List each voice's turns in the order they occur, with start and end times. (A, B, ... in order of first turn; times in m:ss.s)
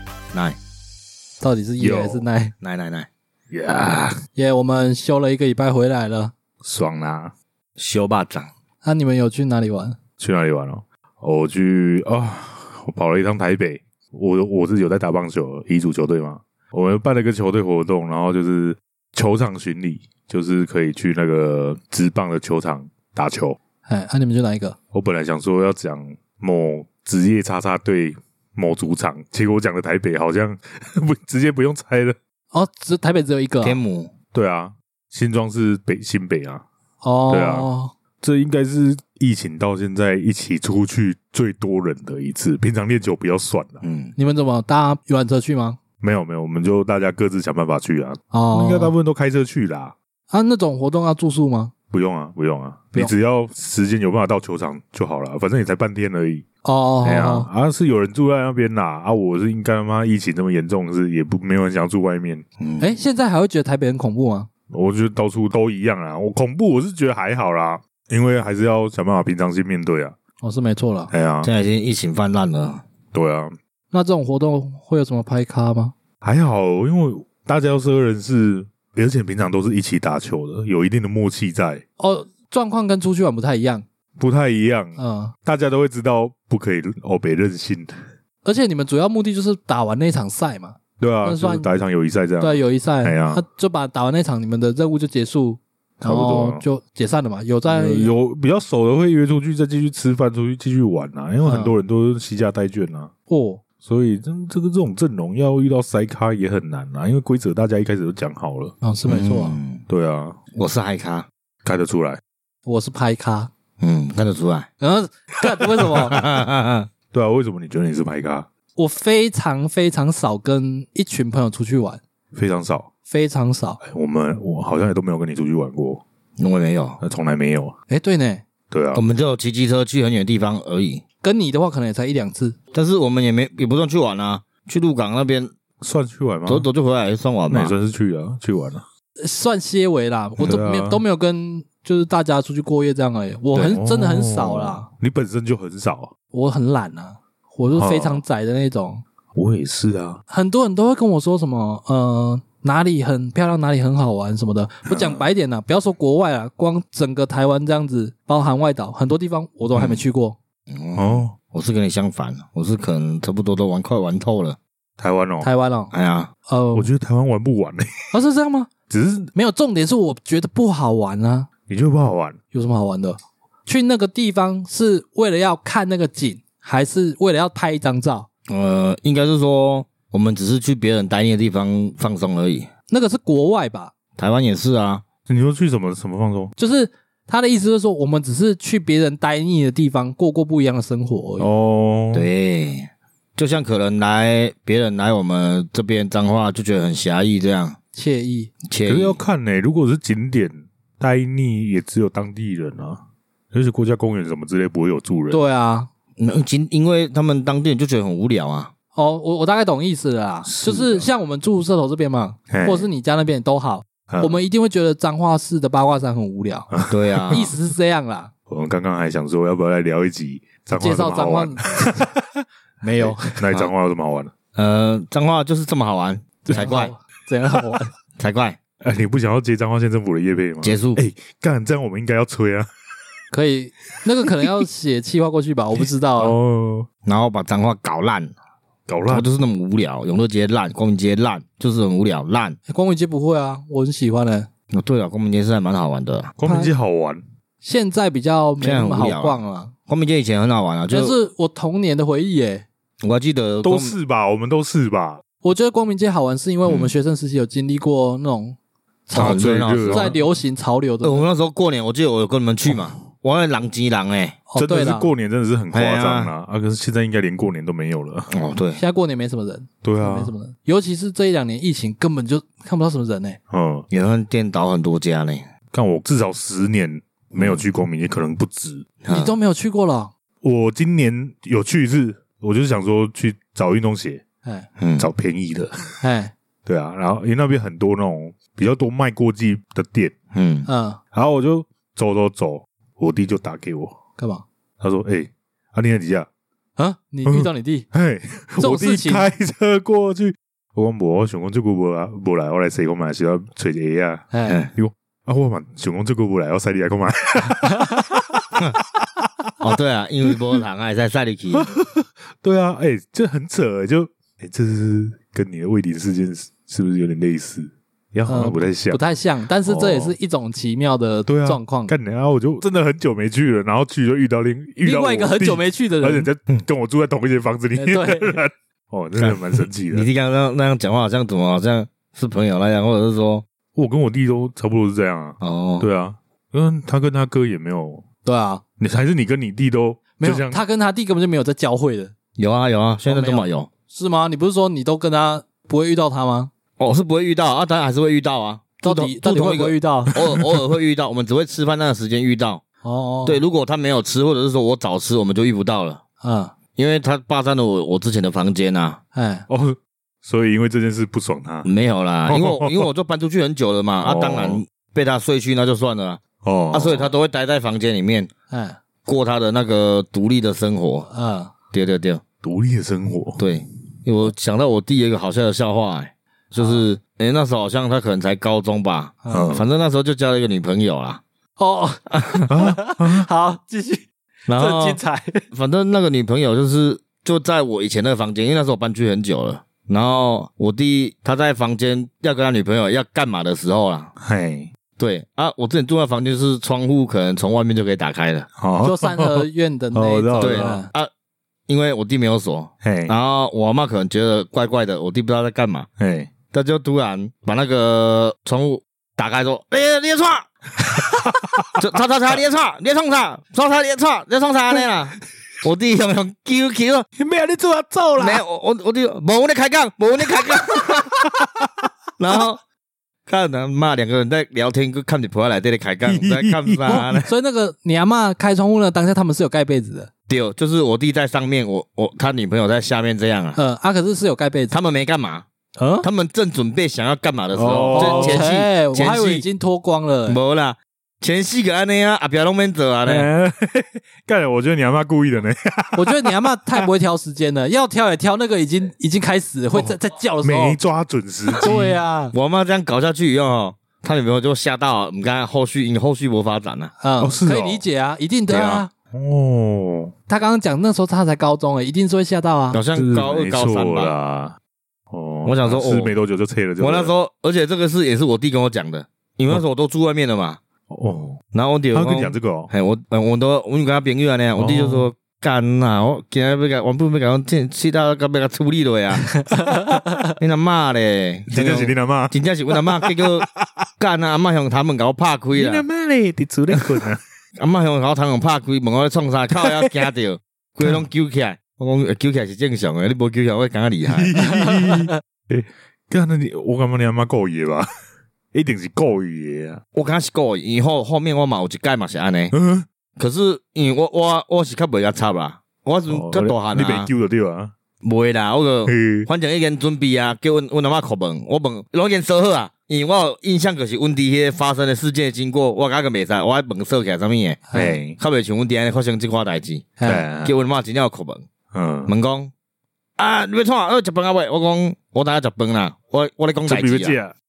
0:01.4-0:02.5 A
0:01.8-0:02.2 B
0:02.6-0:03.1 C
0:03.5-0:04.2 B
0:04.4-0:06.3 A
0:06.6-0:07.3 B
0:07.8-0:08.5 C
0:08.8-0:10.0 A
0:10.2-0:23.6 B
0:23.8-0:24.8 A
0:24.9-0:32.2 B
0:32.5-0:33.8 A
0:33.6-0:34.1 C
0:34.3-0:36.6 B
0:37.0-0:37.9 A
0:37.3-0:37.7 B
0:38.2-0:43.8 B
0:43.8-0:44.1 C
0:44.2-0:45.8 A
0:46.0-0:49.9 B
0:48.3-0:48.9 A
0:50.3-0:51.7 A
0:51.9-0:56.4 B
0:56.6-0:57.5 A
0:57.0-1:02.4 B
1:02.6-1:02.9 C
1:02.8-1:04.5 A
1:04.7-1:10.1 B
1:10.4-1:11.1 A
1:11.1-1:11.5 B
1:11.4-1:12.8 C
1:13.1-1:13.5 B
1:13.9-1:15.9 A
1:16.2-1:21.8 B
1:22.0-1:23.8 A
1:24.2-1:28.0 B
1:25.0-1:25.3 A
1:28.4-1:31.7 A
1:31.0-1:33.4 B
1:32.4-1:38.1 A
1:36.0-1:36.6 B
1:37.7-1:43.1 B
1:41.4-1:41.7 A
1:43.3-1:43.6 A
1:43.8-1:48.7 B
1:48.8-1:49.6 A
1:49.1-1:49.8 C
1:49.9-1:50.4 B
1:50.5-1:51.3 C
1:51.6-1:52.2 B
1:52.6-1:53.5 A
1:53.8-1:54.7 C
1:54.8-1:56.2 A
1:56.0-1:56.9 C
1:57.1-1:58.5 B
1:58.8-2:02.0 A
2:02.3-2:02.9 B
2:03.1-2:03.8 A
2:03.8-2:06.0 B
2:06.4-2:07.0 C
2:07.0-2:07.8 B
2:07.9-2:08.4 A
2:08.7-2:09.0 B
2:08.9-2:11.0 C
2:11.2-2:12.6 A
2:12.7-2:15.5 C
2:15.8-2:16.7 B
2:16.4-2:17.7 C
2:17.5-2:18.8 B
2:19.2-2:24.9 A
2:20.4-2:21.0 B
2:23.5-2:26.1 B
2:26.3-2:29.0 A
2:27.8-2:28.2 B
2:29.3-2:30.2 B
2:30.3-2:40.4 A
2:39.7-2:40.0 C
2:40.7-2:44.6 C
2:41.0-2:41.3 B
2:45.0-2:45.5 B
2:45.4-2:45.9 A
2:45.9-2:46.3 C
2:46.5-2:46.9 A
2:46.7-2:47.9 B
2:48.1-2:48.7 A
2:48.9-2:49.3 B
2:49.3-2:51.5 A
2:51.7-2:52.4 B
2:52.5-2:58.3 A
2:58.5-3:02.7 C
3:02.9-3:03.9 A
3:04.2-3:05.0 C
3:05.3-3:06.5 B
3:06.6-3:11.5 A
3:11.4-3:12.3 B
3:12.1-3:17.8 C
3:17.9-3:18.5 A
3:18.6-3:19.2 C
3:18.8-3:23.0 B
3:23.5-3:25.4 B
3:25.3-3:25.9 A
3:26.2-3:28.7 C
3:28.9-3:36.7 A
3:30.4-3:31.0 B
3:32.5-3:32.9 B
3:34.1-3:34.4 B
3:36.7-3:37.5 B
3:36.9-3:37.5 C
3:37.3-3:38.3 A
3:38.5-3:42.4 B
3:40.7-3:42.1 A
3:42.8-3:43.6 A
3:43.0-3:44.3 B
3:44.5-3:46.9 C
3:46.4-3:47.9 A
3:48.2-3:48.6 C
3:48.8-3:52.7 B
3:50.6-3:51.0 C
3:53.3-3:56.4 A
3:56.2-3:56.9 B
3:57.0-3:58.3 C
3:58.9-3:59.3 B
3:59.1-4:02.6 C
4:02.7-4:04.5 A
4:04.7-4:06.3 C
4:06.4-4:07.2 B
4:06.4-4:06.7 A
4:07.6-4:09.7 A
4:08.6-4:11.1 C
4:10.9-4:12.6 A
4:13.0-4:14.0 C
4:13.6-4:15.2 B
4:15.4-4:21.2 A
4:16.6-4:16.9 C
4:19.1-4:20.2 C
4:19.1-4:20.2 B
4:21.0-4:24.4 C
4:24.5-4:25.1 A
4:24.6-4:28.3 B
4:25.7-4:26.3 C
4:28.3-4:28.8 C
4:28.8-4:33.4 A
4:29.8-4:30.3 B
4:33.5-4:33.9 B
4:33.9-4:35.4 C
4:35.7-4:38.9 B
4:37.4-4:37.6 C
4:39.0-4:39.3 C
4:39.1-4:40.1 A
4:40.4-4:44.2 B
4:44.8-4:45.1 C
4:45.0-4:46.0 B
4:46.0-4:46.3 A
4:46.6-4:50.1 B
4:50.3-4:50.7 C
4:50.6-4:51.0 A
4:51.1-4:54.0 B
4:54.2-4:54.4 A
4:54.8-4:56.3 B
4:56.8-4:57.9 A
4:57.2-5:08.5 B
4:58.6-4:59.3 A
5:04.3-5:04.6 A
5:09.6-5:11.7 C
5:11.5-5:19.0 B
5:18.3-5:21.9 A
5:19.6-5:20.1 B
5:21.3-5:30.1 B
5:24.8-5:26.3 A
5:27.8-5:28.4 A
5:29.2-5:33.4 C
5:33.7-5:38.0 B
5:35.4-5:35.8 C
5:38.2-5:38.6 A
5:38.8-5:40.6 B
5:40.2-5:42.1 A
5:42.4-5:43.7 C
5:43.0-5:46.5 A
5:46.8-5:52.6 C
5:48.8-5:50.1 A
5:52.8-5:53.4 A
5:53.2-5:56.0 C
5:56.2-5:56.5 A
5:56.8-5:59.0 C
5:59.1-5:59.4 A
5:59.5-6:01.7 B
6:01.6-6:08.3 C
6:02.3-6:02.9 B
6:04.0-6:04.6 B
6:06.4-6:07.1 B
6:08.5-6:08.8 A
6:09.0-6:11.1 C
6:11.1-6:11.5 A
6:11.7-6:12.2 C
6:12.4-6:13.4 B
6:13.4-6:21.2 C
6:19.2-6:19.5 A
6:19.3-6:19.6 B
6:21.6-6:25.4 A
6:22.5-6:23.3 B
6:24.5-6:25.0 C
6:25.5-6:34.1 C
6:34.2-6:34.7 B
6:35.0-6:38.5 C
6:38.6-6:40.8 B
6:38.8-6:40.9 A
6:40.4-6:41.1 C
6:41.7-6:45.9 C
6:42.8-6:43.1 B
6:46.0-6:46.3 B
6:46.5-6:50.4 C
6:50.9-6:52.4 B
6:51.8-6:57.1 C
6:57.2-6:58.4 B
6:58.2-7:01.2 C
7:00.5-7:01.6 B
7:02.2-7:02.6 C
7:03.3-7:07.2 C
7:06.0-7:07.3 B
7:06.8-7:10.1 A
7:10.3-7:13.6 C
7:13.6-7:14.7 A
7:14.7-7:15.4 C
7:15.8-7:16.0 A
7:16.0-7:19.4 C
7:17.5-7:18.5 B
7:17.9-7:20.4 A
7:20.3-7:23.3 C
7:23.0-7:26.8 B
7:25.9-7:30.8 A
7:29.7-7:32.0 B
7:31.5-7:32.3 A
7:32.3-7:36.9 C
7:37.0-7:38.9 A
7:37.2-7:37.8 B
7:38.5-7:38.8 C
7:39.1-7:40.1 B
7:40.3-7:42.8 A
7:42.7-7:44.1 C
7:42.9-7:44.6 B
7:45.1-7:47.1 B
7:45.4-7:46.2 C
7:46.8-7:50.6 C
7:50.9-7:51.4 B
7:51.5-7:59.4 C
7:51.9-7:52.7 B
7:54.6-7:55.1 B
7:59.5-8:00.2 A
8:00.4-8:03.5 C
8:01.5-8:03.7 B
8:04.0-8:05.8 C
8:05.5-8:07.2 B
8:07.6-8:14.4 C
8:09.6-8:10.0 B
8:14.1-8:17.9 B
8:14.6-8:15.0 A
8:18.5-8:19.8 B
8:19.9-8:22.5 C
8:22.5-8:22.8 B
8:23.2-8:27.1 C
8:26.1-8:27.7 B
8:28.0-8:41.4 C
8:28.8-8:29.3 B
8:37.7-8:38.0 A
8:37.7-8:38.2 B
8:40.0-8:40.2 A
8:40.0-8:40.5 B
8:41.7-8:42.1 B
8:42.1-8:42.5 C
8:43.2-8:47.2 C
8:46.7-8:47.3 B